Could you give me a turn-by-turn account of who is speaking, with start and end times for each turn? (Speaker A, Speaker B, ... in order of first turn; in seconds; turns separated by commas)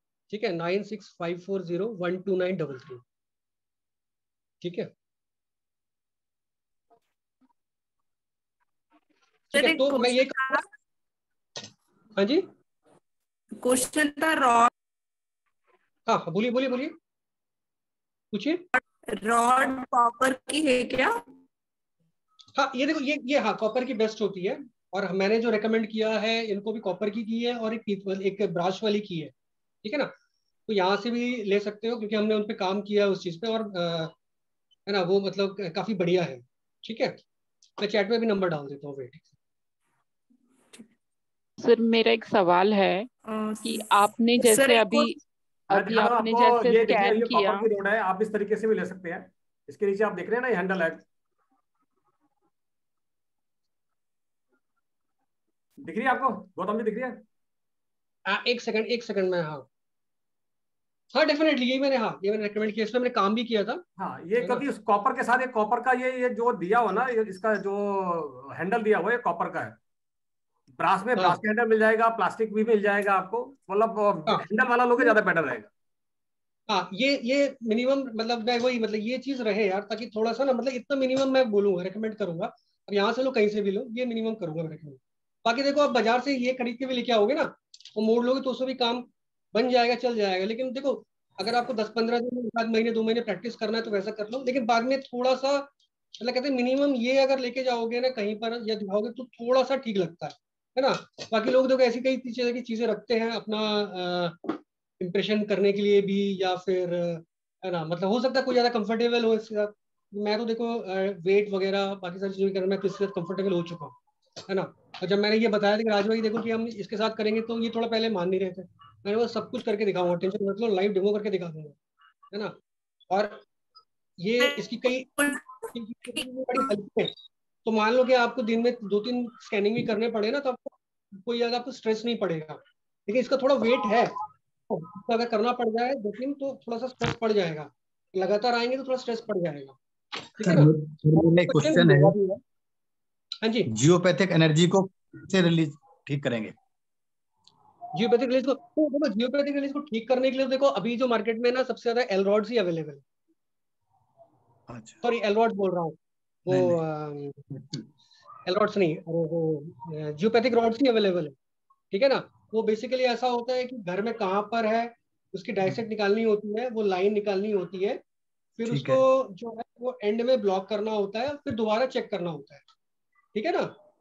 Speaker A: 0.3-3.0, Speaker A: 4.6-4.9, Speaker A: 9.5-10.6, Speaker B: 9.5-10.6, Speaker A: 12.2-12.4, Speaker B: 13.6-14.7, Speaker A: 16.1-16.9, Speaker A: 18.3-18.6, Speaker B: 18.7-21.2, Speaker A: 22.6-30.1, Speaker A: 30.7-34.1, Speaker A: 34.9-37.2, Speaker A: 37.8-39.3, Speaker C: 41.6-43.1, Speaker B: 43.3-43.7, Speaker C: 43.6-45.1, Speaker B: 44.4-45.2, Speaker C: 45.7-47.7, Speaker D: 45.7-51.0, Speaker D: 55.8-57.2, Speaker A: 58.3-59.6, Speaker A: 61.1-63.8, Speaker D: 64.0-69.7, Speaker A: 64.4-64.7, Speaker D: 70.8-75.7, Speaker A: 76.7-113.9, Speaker A: 114.5-121.8, Speaker A: 123.1-123.4, Speaker A: 124.2-125.1, Speaker B: 124.4-126.7, Speaker A: 125.7-127.1, Speaker A: 127.6-134.1, Speaker A: 134.7-139.8, Speaker A: 140.4-140.7, Speaker E: 140.4-142.3, Speaker A: 141.4-142.2, Speaker A: 143.4-143.7, Speaker E: 143.7-146.5, Speaker A: 147.9-153.0, Speaker E: 154.7-155.0, Speaker A: 155.0-157.5, Speaker E: 156.5-156.8, Speaker A: 158.4-161.3, Speaker A: 161.9-168.0, Speaker A: 168.6-172.6, Speaker E: 168.7-169.0, Speaker A: 173.3-173.7